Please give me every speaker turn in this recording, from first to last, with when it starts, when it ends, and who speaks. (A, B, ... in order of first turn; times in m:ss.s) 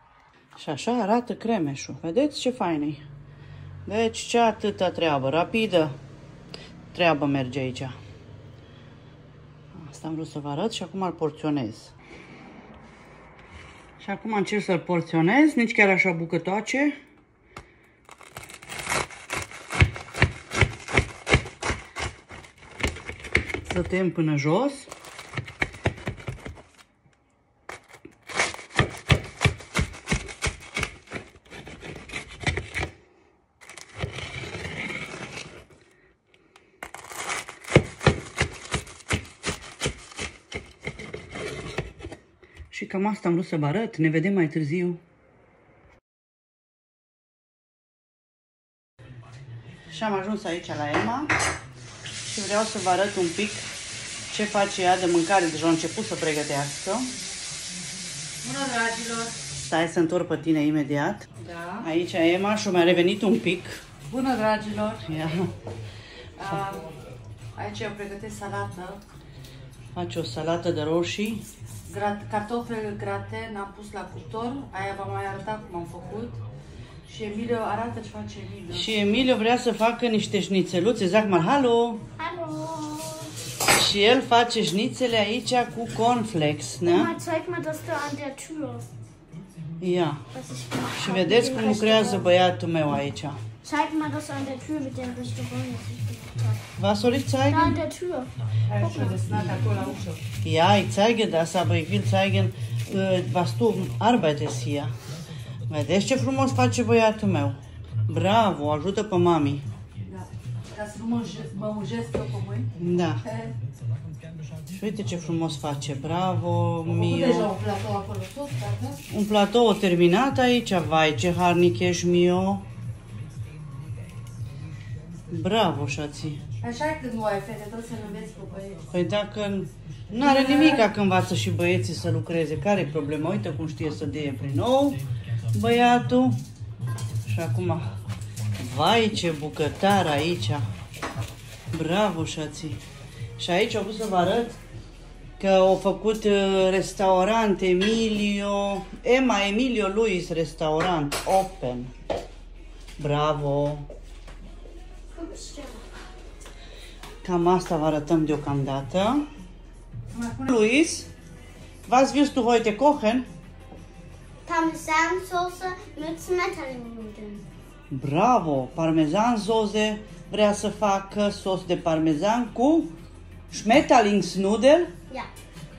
0:00.6-0:03.0 A
0:03.8-0:06.0 A
0:06.9-0:08.0 A
0:09.7-0:11.9 A
0:14.0-0:17.0 A
0:23.6-0:24.9 A
0:42.7-0:45.0 A
0:49.9-0:51.3 A
0:52.2-0:53.7 A
0:54.3-0:57.1 A
0:58.4-0:59.3 B
0:59.6-1:01.2 A
1:01.4-1:01.8 B
1:01.8-1:03.8 A
1:04.1-1:05.0 B
1:05.0-1:05.5 A
1:06.4-1:06.8 B
1:07.5-1:09.0 B
1:09.9-1:11.4 A
1:11.9-1:16.4 B
1:17.0-1:18.9 B
1:18.7-1:22.0 A
1:22.2-1:23.3 C
1:23.7-1:27.2 A
1:26.8-1:28.9 C
1:29.8-1:30.2 A
1:30.3-1:32.2 C
1:30.9-1:33.4 A
1:33.6-1:36.6 C
1:36.8-1:37.8 A
1:37.5-1:38.3 C
1:38.6-1:40.2 B
1:40.4-1:44.9 A
1:45.7-1:49.7 A
1:50.0-1:52.7 B
1:52.8-1:53.2 A
1:53.2-1:53.5 B
1:54.7-1:57.5 A
1:56.9-1:59.0 B
1:59.1-2:02.6 A
2:05.3-2:06.4 A
2:06.6-2:08.8 B
2:08.9-2:15.0 A
2:10.2-2:10.8 B
2:15.5-2:16.4 A
2:17.2-2:17.9 A
2:18.6-2:20.6 A
2:21.7-2:22.8 A
2:23.4-2:24.6 A
2:25.4-2:31.9 A
2:33.0-2:33.9 A
2:35.1-2:35.9 C
2:37.2-2:39.2 A
2:40.1-2:40.4 B
2:40.4-2:41.1 A
2:41.8-2:43.3 A
2:44.4-2:47.4 C
2:47.9-2:52.9 A
2:53.5-2:54.9 A